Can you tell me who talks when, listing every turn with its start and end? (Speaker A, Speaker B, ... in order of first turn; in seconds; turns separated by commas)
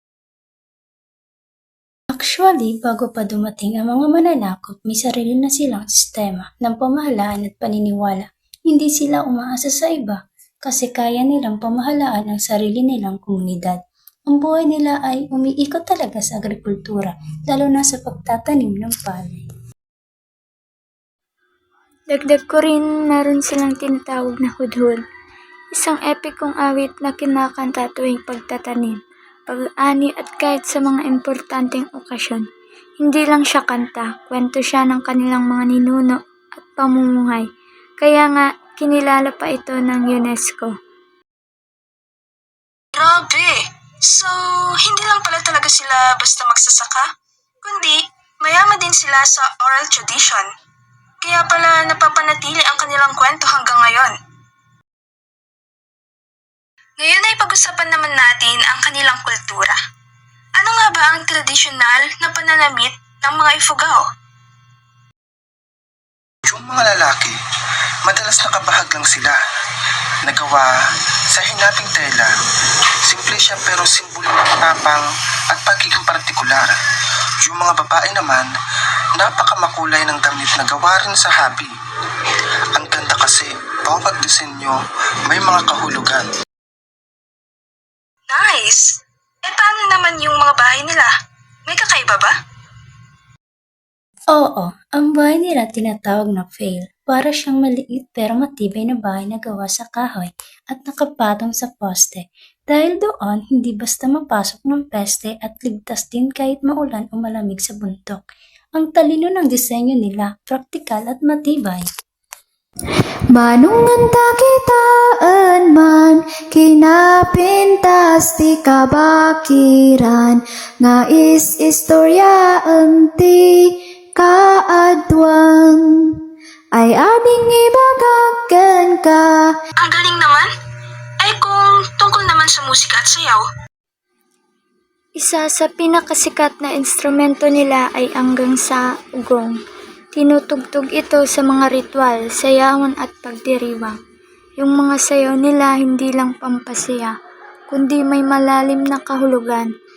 Speaker A: 2.1-13.8, Speaker A: 14.3-19.5, Speaker B: 22.1-25.0, Speaker B: 25.7-32.4, Speaker B: 33.0-37.5, Speaker B: 38.0-40.7, Speaker C: 42.9-47.1, Speaker C: 47.6-50.5, Speaker C: 51.2-54.1, Speaker C: 57.0-59.8, Speaker C: 60.6-64.0, Speaker D: 66.5-67.4, Speaker D: 68.0-69.4, Speaker D: 70.2-70.7, Speaker D: 71.3-72.3, Speaker D: 73.0-76.7, Speaker D: 77.4-78.5, Speaker D: 79.2-81.7, Speaker D: 82.7-86.3, Speaker C: 88.3-88.9, Speaker C: 89.4-91.1, Speaker C: 91.7-92.3, Speaker A: 94.3-108.2, Speaker A: 108.8-111.8, Speaker E: 113.3-126.2, Speaker E: 126.7-129.5, Speaker C: 129.8-130.5, Speaker C: 131.2-133.4, Speaker B: 135.2-139.6, Speaker B: 140.1-143.9, Speaker B: 144.6-147.1, Speaker B: 147.7-149.7